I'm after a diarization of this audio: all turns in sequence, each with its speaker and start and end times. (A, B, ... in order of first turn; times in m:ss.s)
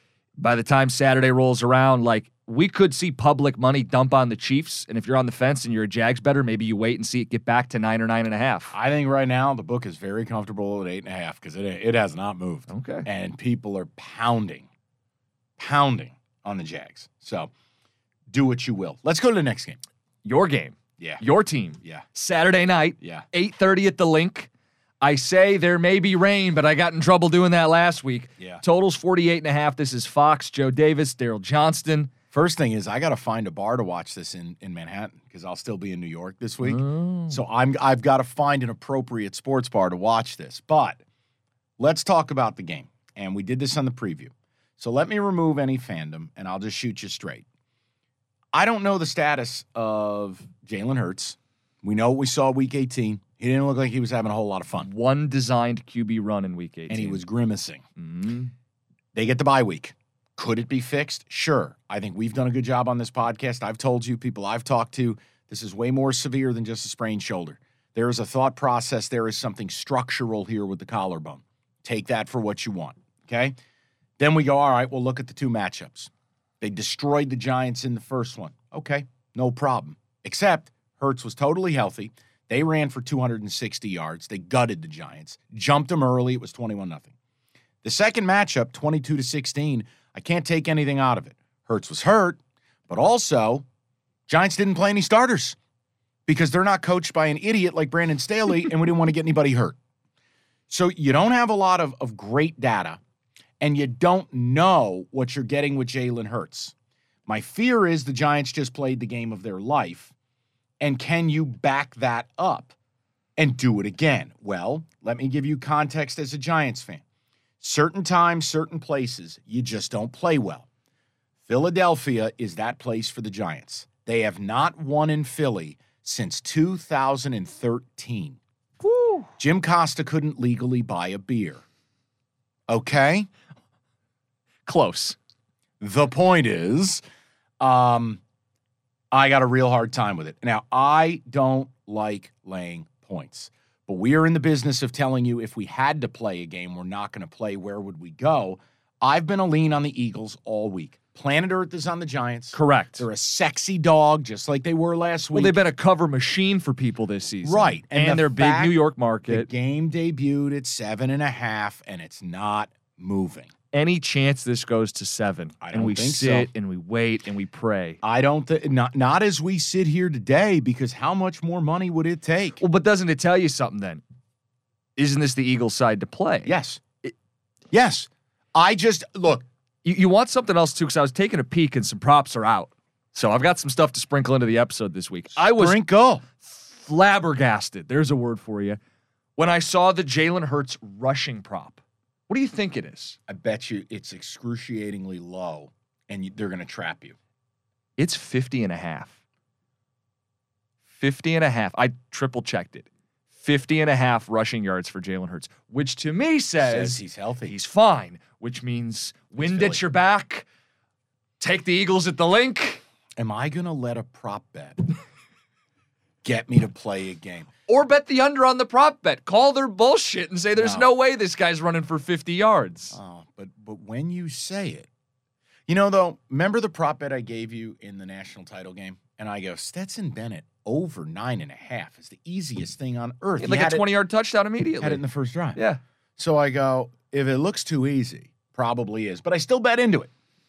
0:00.4-0:08.7 A
0:08.7-0:14.7 B
0:12.7-0:13.1 A
0:15.6-0:17.5 B
0:18.3-0:19.8 B
0:20.2-0:24.5 A
0:23.0-0:23.2 B
0:25.0-0:32.1 A
0:32.3-0:41.0 B
0:36.6-0:37.4 A
0:41.8-0:47.4 B
0:48.5-0:54.9 B
0:54.8-0:57.2 A
0:56.9-0:57.8 B
0:58.0-0:58.5 A
0:59.1-1:13.5 B
1:14.2-1:27.1 B
1:27.8-1:33.6 B
1:34.3-1:35.6 B
1:36.3-1:39.8 B
1:40.7-1:43.0 B
1:43.6-1:46.7 B
1:47.3-1:50.1 B
1:50.8-1:52.7 B
1:53.4-1:57.0 B
1:57.6-2:00.7 B
2:01.4-2:08.4 B
2:08.8-2:09.3 A
2:09.4-2:11.6 B
2:12.7-2:13.3 B
2:14.7-2:15.2 A
2:15.8-2:17.0 B
2:17.6-2:18.2 B
2:19.1-2:35.6 B
2:32.5-2:33.0 A
2:35.3-2:39.5 A
2:37.4-2:38.7 B
2:39.3-2:43.5 B
2:43.7-2:48.0 A
2:45.6-2:46.5 B
2:48.0-2:52.6 B
2:52.6-2:54.0 A
2:55.0-2:56.5 A
2:56.4-2:56.8 B
2:57.7-2:59.4 B
2:59.8-3:05.8 A
3:05.4-3:06.2 B
3:06.4-3:08.8 A
3:09.4-3:13.2 A
3:13.3-3:17.2 B
3:18.0-3:19.1 A
3:21.0-3:22.9 A
3:23.4-3:30.4 A
3:26.6-3:27.5 B
3:29.4-3:29.8 B
3:31.4-3:32.8 A
3:33.2-3:34.8 B
3:36.2-3:37.5 B
3:37.7-3:42.9 A
3:40.6-3:40.8 B
3:42.9-3:44.9 B
3:45.7-3:53.8 B
3:53.4-3:55.0 A
3:54.8-3:55.6 B
3:56.2-4:00.1 B